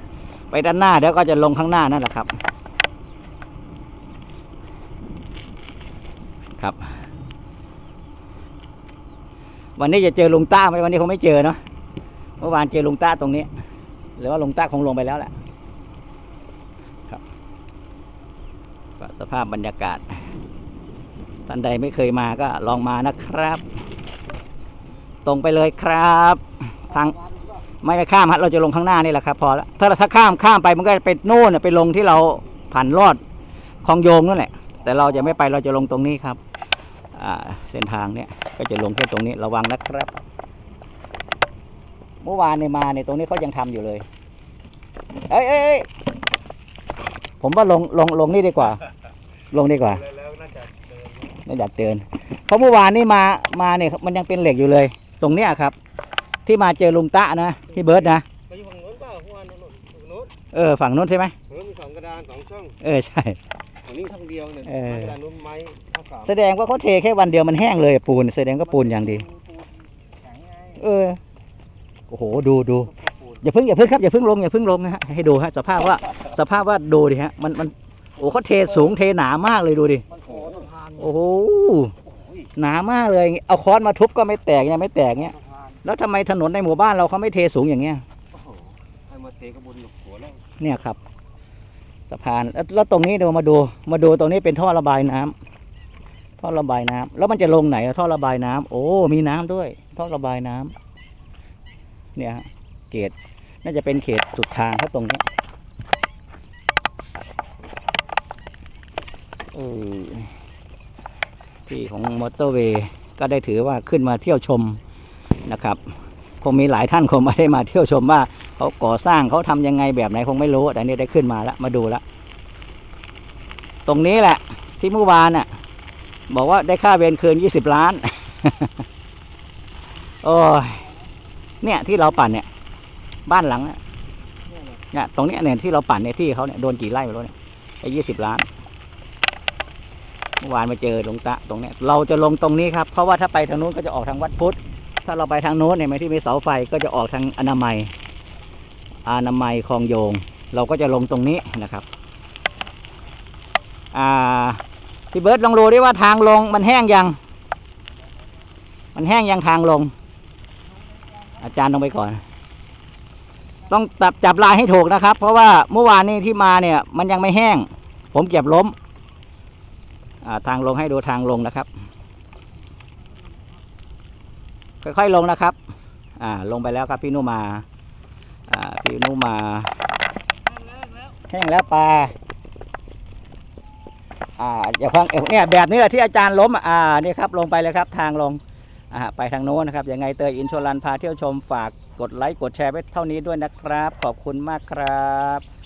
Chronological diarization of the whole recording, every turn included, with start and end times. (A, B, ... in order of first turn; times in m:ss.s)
0:00.5-0:02.3 A
0:06.6-0:06.9 A
0:09.8-0:11.6 A
0:12.4-0:13.5 A
0:14.2-0:15.3 A
0:19.0-0:20.2 A
0:21.5-0:23.6 A
0:25.2-0:27.2 A
0:27.8-0:33.2 A
0:33.8-0:36.4 A
0:37.1-0:40.1 A
0:42.2-0:44.0 A
0:45.3-0:45.9 A
0:47.4-0:48.8 A
0:49.5-0:50.1 A
0:50.2-0:50.7 B
0:51.4-0:55.7 A
0:56.4-0:58.2 A
0:58.5-1:00.3 B
1:00.5-1:01.4 A
1:01.5-1:02.7 B
1:02.8-1:03.4 A
1:03.8-1:06.2 B
1:04.6-1:05.2 A
1:06.2-1:09.3 A
1:10.7-1:11.2 A
1:12.1-1:20.1 A
1:20.2-1:20.8 B
1:20.8-1:21.9 A
1:22.6-1:28.0 A
1:29.1-1:30.4 B
1:30.6-1:31.0 A
1:32.1-1:35.3 A
1:36.4-1:40.7 A
1:42.2-1:45.2 A
1:49.5-1:50.3 A
1:51.7-1:54.8 A
1:55.4-1:55.8 A
1:56.4-2:02.0 A
2:03.8-2:05.5 A
2:06.3-2:08.8 A
2:10.2-2:10.9 A
2:11.6-2:12.5 A
2:13.3-2:13.8 A
2:14.9-2:18.5 A
2:20.4-2:27.9 A
2:29.0-2:31.8 A
2:33.9-2:34.6 A
2:35.1-2:37.2 A
2:38.9-2:39.9 A
2:41.4-2:42.2 A
2:43.7-2:48.7 A
2:50.2-2:51.7 A
2:54.8-2:55.6 A
2:56.2-2:57.6 A
2:58.5-2:59.7 A
3:01.2-3:02.1 A
3:04.4-3:15.4 A